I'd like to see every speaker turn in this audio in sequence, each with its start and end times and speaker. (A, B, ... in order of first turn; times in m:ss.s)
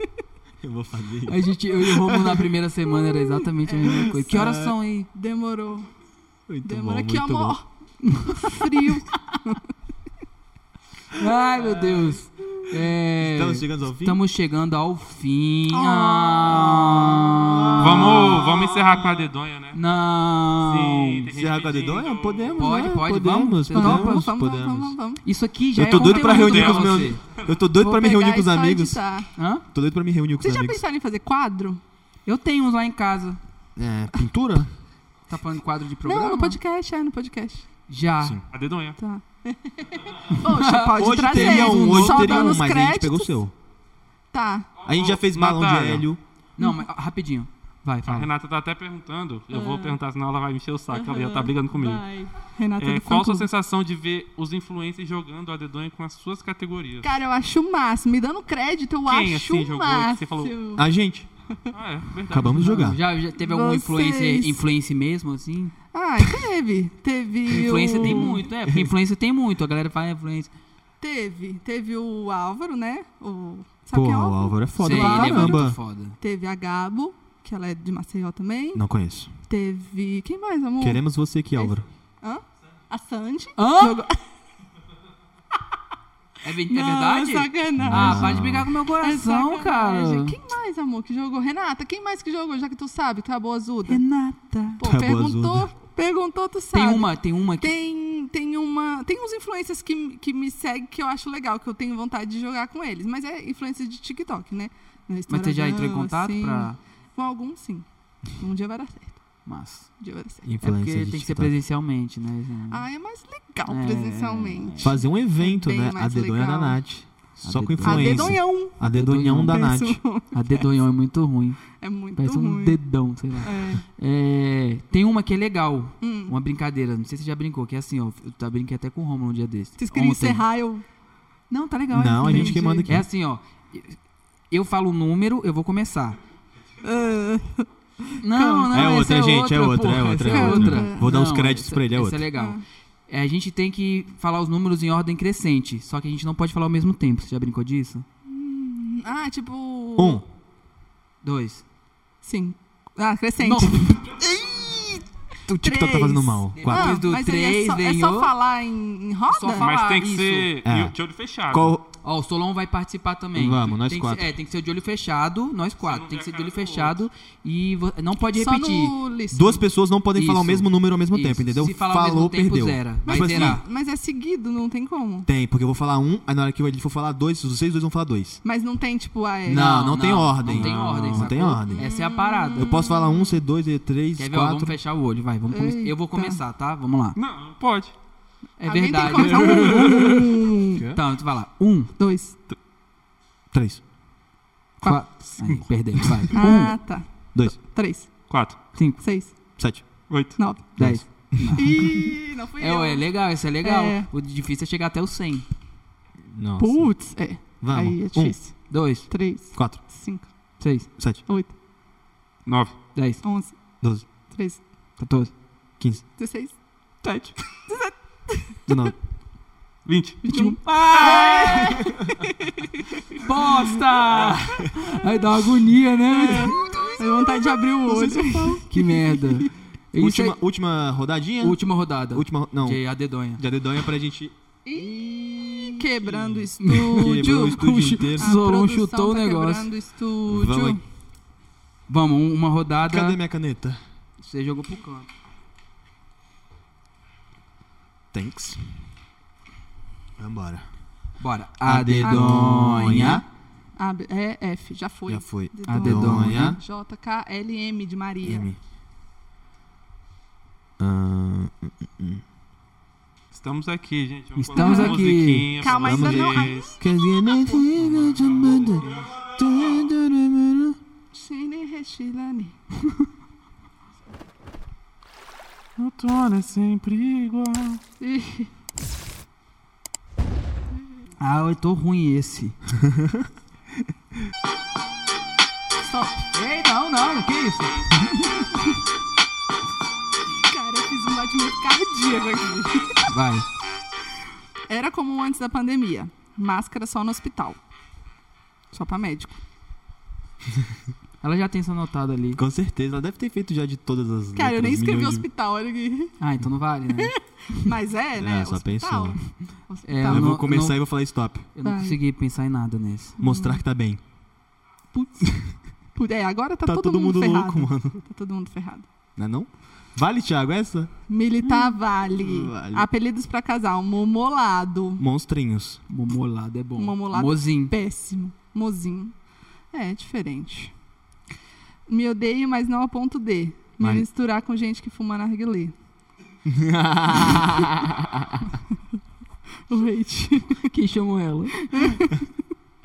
0:00.6-0:02.5 A
0:01.3-0:05.1 B
0:03.2-0:04.3 C
0:03.9-0:04.7 A
0:05.1-0:05.9 C
0:06.5-0:07.6 A
0:06.6-0:07.6 C
0:08.0-0:09.4 B
0:08.2-0:09.6 C
0:11.1-0:18.5 B
0:13.2-0:14.2 A
0:15.7-0:17.1 C
0:16.8-0:18.6 A
0:17.8-0:19.8 D
0:18.2-0:19.0 C
0:19.7-0:21.3 B
0:20.6-0:22.7 D
0:21.3-0:25.0 A
0:22.5-0:24.3 B
0:23.7-0:25.2 C
0:25.2-0:27.2 B
0:25.7-0:29.0 A
0:25.9-0:27.0 D
0:27.8-0:29.3 C
0:29.4-0:29.6 B
0:29.7-0:30.8 A
0:30.4-0:31.8 C
0:32.2-0:33.4 B
0:33.8-0:34.7 A
0:35.3-0:36.6 B
0:36.0-0:37.7 C
0:37.9-0:38.4 B
0:38.5-0:39.0 D
0:39.0-0:43.3 C
0:40.3-0:42.6 B
0:40.9-0:43.5 A
0:44.3-0:44.7 C
0:44.8-0:46.1 D
0:44.8-0:46.2 A
0:46.6-0:48.3 B
0:48.0-0:52.0 D
0:49.5-0:50.0 C
0:50.9-0:53.5 C
0:52.8-0:57.1 D
0:57.0-1:00.8 C
0:59.1-1:00.5 D
1:00.8-1:01.3 A
1:01.7-1:02.8 D
1:02.3-1:03.0 A
1:02.5-1:05.7 B
1:03.4-1:04.6 C
1:05.9-1:08.4 C
1:07.5-1:10.5 B
1:08.0-1:08.9 A
1:11.0-1:18.8 C
1:13.9-1:15.8 A
1:14.8-1:16.2 B
1:18.7-1:19.3 A
1:19.5-1:21.0 C
1:20.8-1:21.8 A
1:21.6-1:24.2 C
1:23.6-1:24.0 B
1:26.4-1:30.4 B
1:26.7-1:28.4 C
1:27.8-1:28.7 A
1:29.0-1:34.0 C
1:33.9-1:34.8 B
1:34.8-1:49.2 C
1:34.8-1:35.7 A
1:36.7-1:37.7 B
1:45.3-1:46.8 B
1:49.4-1:49.9 B
1:50.0-1:50.4 C
1:50.4-1:51.5 A
1:50.6-1:52.8 B
1:52.7-1:56.8 C
1:53.7-1:55.0 B
1:54.8-2:00.0 A
1:57.4-1:59.6 B
1:57.8-1:58.8 C
1:59.5-2:00.4 C
2:00.3-2:01.6 B
2:01.8-2:02.8 C
2:02.2-2:10.4 B
2:03.4-2:03.8 C
2:06.0-2:06.3 C
2:09.8-2:10.8 C
2:11.5-2:14.0 B
2:11.9-2:13.0 A
2:12.2-2:12.9 C
2:14.5-2:16.2 B
2:16.8-2:19.4 C
2:18.2-2:28.0 B
2:18.7-2:22.3 A
2:20.2-2:21.1 C
2:22.4-2:22.6 C
2:28.3-2:30.2 C
2:30.0-2:30.2 A
2:31.2-2:31.6 B
2:32.2-2:34.1 C
2:33.4-2:34.0 B
2:34.0-2:37.0 A
2:35.6-2:39.7 C
2:36.5-2:38.3 B
2:39.3-2:40.5 B
2:39.6-2:41.7 D
2:40.6-2:41.0 A
2:41.5-2:41.9 A
2:42.0-2:48.9 B
2:43.3-2:44.3 A
2:45.8-2:47.0 D
2:48.3-2:49.6 C
2:49.3-2:53.6 A
2:50.1-2:53.6 B
2:53.0-2:55.3 C
2:55.2-2:58.4 A
2:58.4-2:59.7 C
2:59.4-3:01.9 A
2:59.5-3:02.7 B
3:00.5-3:01.3 D
3:01.7-3:03.4 C
3:02.6-3:04.8 A
3:04.2-3:07.2 B
3:05.5-3:06.4 C
3:07.2-3:07.9 D
3:08.6-3:11.9 B
3:08.6-3:10.8 C
3:09.6-3:10.0 A
3:10.7-3:11.0 A
3:12.0-3:12.4 C
3:13.5-3:13.8 A
3:14.8-3:15.0 C
3:14.8-3:16.8 B
3:16.0-3:16.3 A
3:16.3-3:18.1 C
3:18.3-3:18.6 D
3:18.7-3:19.0 B
3:19.0-3:19.3 C
3:19.6-3:19.8 A
3:20.1-3:20.4 D
3:20.4-3:20.6 C
3:20.8-3:21.8 A
3:20.8-3:21.9 B
3:21.6-3:23.0 C
3:22.6-3:25.4 B
3:23.6-3:24.1 C
3:26.3-3:26.9 A
3:26.6-3:30.3 C
3:27.6-3:28.4 A
3:28.7-3:29.1 B
3:29.5-3:29.8 A
3:30.6-3:30.9 B
3:31.3-3:31.5 C
3:32.4-3:32.8 D
3:32.9-3:33.2 B
3:33.2-3:33.6 C
3:33.8-3:34.0 A
3:34.3-3:34.6 C
3:35.0-3:35.3 B
3:36.2-3:38.6 C
3:38.7-3:38.9 A
3:39.8-3:40.2 D
3:40.2-3:42.8 C
3:40.2-3:41.8 B
3:41.3-3:42.1 A
3:43.2-3:46.7 B
3:44.1-3:44.7 A
3:46.1-3:49.5 C
3:46.3-3:48.7 A
3:48.7-3:50.4 B
3:50.0-3:51.6 A
3:51.4-3:53.4 B
3:52.1-3:52.8 A
3:53.4-3:58.3 A
3:54.6-4:00.8 C
3:56.6-3:59.7 B
4:00.3-4:00.8 A
4:01.9-4:03.2 B
4:02.8-4:03.8 A
4:04.2-4:05.1 B
4:08.1-4:08.6 A
4:10.2-4:10.7 A
4:11.2-4:13.2 B
4:11.6-4:13.2 A
4:13.8-4:18.5 C
4:15.1-4:16.6 A
4:15.7-4:16.6 B
4:18.2-4:18.6 A
4:20.8-4:22.2 A
4:23.3-4:26.8 D
4:24.4-4:25.5 B
4:24.5-4:25.1 C
4:25.6-4:27.6 C
4:25.7-4:30.8 A
4:27.8-4:29.2 D
4:31.1-4:32.6 C
4:32.8-4:33.0 B
4:35.8-4:37.8 D
4:38.0-4:38.5 C
4:41.2-4:42.6 B
4:42.8-4:43.2 A
4:45.8-4:46.2 C
4:46.3-4:48.3 B
4:50.5-4:53.1 C
4:53.1-4:53.4 B
4:54.7-4:57.6 C
4:58.7-4:59.4 C
5:01.2-5:02.4 B
5:02.4-5:05.2 A
5:04.3-5:06.1 C
5:06.2-5:07.6 B
5:07.0-5:10.4 C
5:08.2-5:09.2 A
5:09.8-5:10.8 B
5:10.1-5:11.5 A
5:11.6-5:13.2 B
5:11.6-5:12.0 C
5:13.2-5:13.6 C
5:13.2-5:14.0 A
5:14.9-5:15.3 C
5:15.9-5:18.8 C
5:16.6-5:18.0 A
5:19.2-5:20.9 A
5:21.1-5:25.0 C
5:21.4-5:21.8 B
5:22.2-5:22.9 A
5:25.0-5:25.8 A
5:25.9-5:27.7 B
5:26.8-5:29.1 C
5:29.7-5:30.7 C
5:31.9-5:35.7 C
5:33.8-5:34.0 A
5:36.4-5:38.4 A
5:39.7-5:40.7 C
5:40.6-5:41.7 B
5:41.6-5:42.2 C